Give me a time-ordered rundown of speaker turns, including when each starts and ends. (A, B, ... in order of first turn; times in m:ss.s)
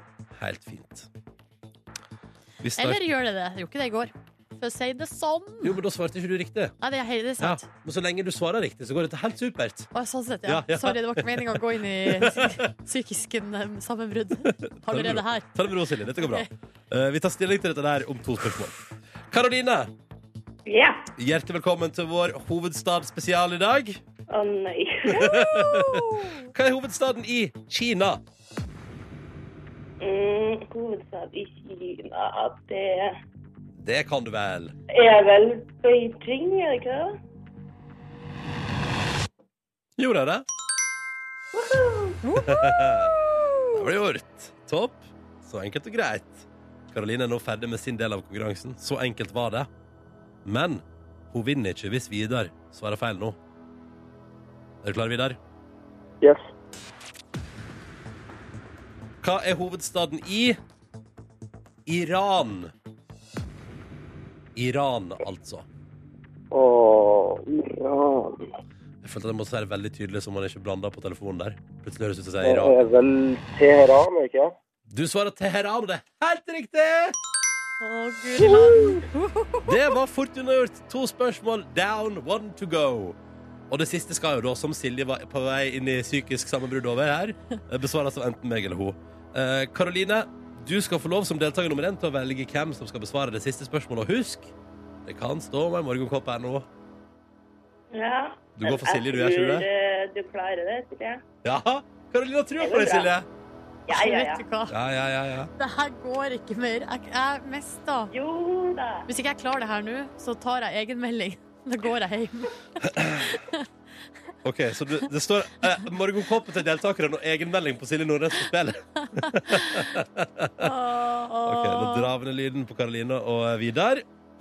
0:00.3-0:01.1 A
0:02.6-0:03.0 A
0:02.8-0:05.8 B
0:05.6-0:06.7 A
0:06.8-0:07.6 B
0:07.4-0:09.9 A
0:09.9-0:16.5 B
0:10.4-0:12.6 A
0:14.4-0:18.8 A
0:19.3-0:19.9 A
0:20.7-0:21.1 C
0:21.2-0:24.0 A
0:24.3-0:25.4 C
0:25.1-0:28.2 A
0:25.3-0:26.5 B
0:30.0-0:33.2 C
0:33.8-0:34.7 A
0:34.9-0:37.2 C
0:40.0-0:40.4 A
0:41.5-0:42.2 C
0:42.2-0:43.8 B
0:42.4-0:43.1 A
0:43.7-0:49.7 A
0:50.4-0:53.4 A
0:54.8-0:55.4 A
0:59.2-1:00.6 A
1:01.8-1:02.7 A
1:04.6-1:05.6 A
1:06.5-1:08.5 D
1:09.0-1:12.9 A
1:12.4-1:14.5 D
1:14.9-1:17.2 A
1:17.8-1:19.9 B
1:19.6-1:23.2 A
1:23.7-1:34.5 A
1:35.0-1:36.7 A
1:37.9-1:41.2 C
1:38.6-1:39.7 A
1:41.4-1:43.3 A
1:42.6-1:43.1 C
1:43.9-1:44.4 C
1:43.9-1:44.7 B
1:44.7-1:45.5 A
1:45.6-1:48.1 B
1:48.1-1:49.1 C
1:49.1-1:53.7 B
1:52.8-1:53.3 A
1:54.4-2:00.7 A
1:59.0-2:00.0 B
2:00.6-2:02.1 B
2:01.4-2:04.0 A